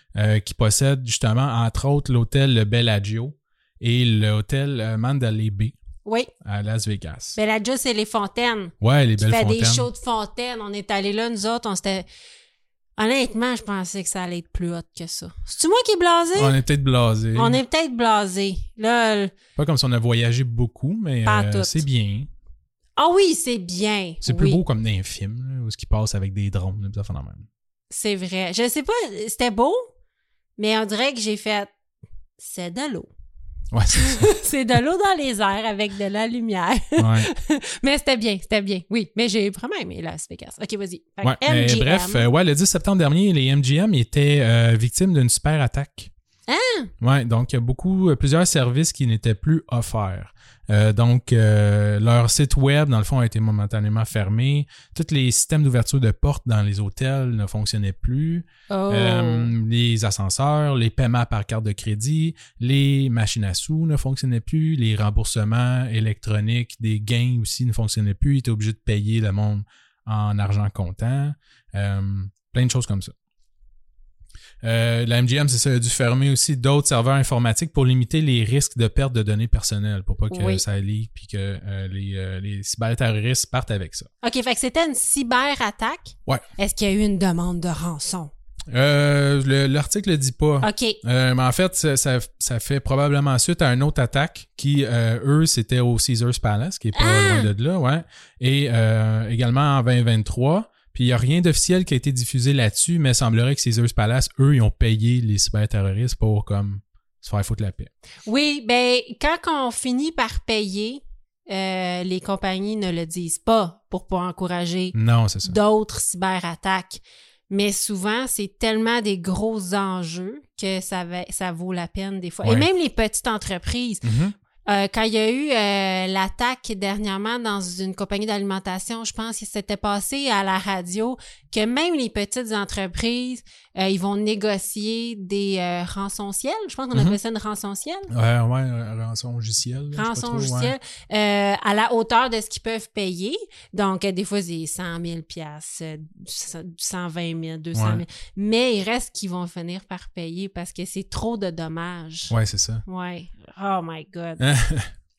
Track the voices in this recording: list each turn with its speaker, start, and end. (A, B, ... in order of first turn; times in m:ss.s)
0:00.1-0:05.8 A
0:06.0-0:06.3 B
0:06.4-0:07.4 A
0:07.4-0:12.1 B
0:08.8-0:09.9 A
0:13.0-0:16.6 B
0:16.4-0:17.6 A
0:17.4-0:19.3 B
0:19.6-0:22.3 A
0:21.2-0:21.8 B
0:23.0-0:24.6 B
0:24.2-0:27.5 A
0:27.9-0:29.9 B
0:30.6-0:31.7 B
0:32.4-0:33.1 B
0:33.7-0:34.3 A
0:33.9-0:42.3 B
0:37.0-0:37.3 A
0:41.2-0:46.1 A
0:46.5-0:46.9 B
0:47.0-1:13.1 A
0:58.7-0:59.5 B
1:14.6-1:24.1 A
1:20.3-1:20.6 B
1:24.2-1:28.3 B
1:28.7-1:47.9 A
1:30.6-1:31.0 B
1:37.0-1:37.5 B
1:48.3-2:04.1 B
1:54.9-1:55.6 A
2:02.4-2:02.7 A
2:04.0-2:04.3 A
2:04.7-2:18.1 B
2:18.1-2:20.8 A
2:20.0-2:34.4 B
2:27.8-2:28.0 A
2:32.3-2:32.8 A
2:34.4-2:34.9 A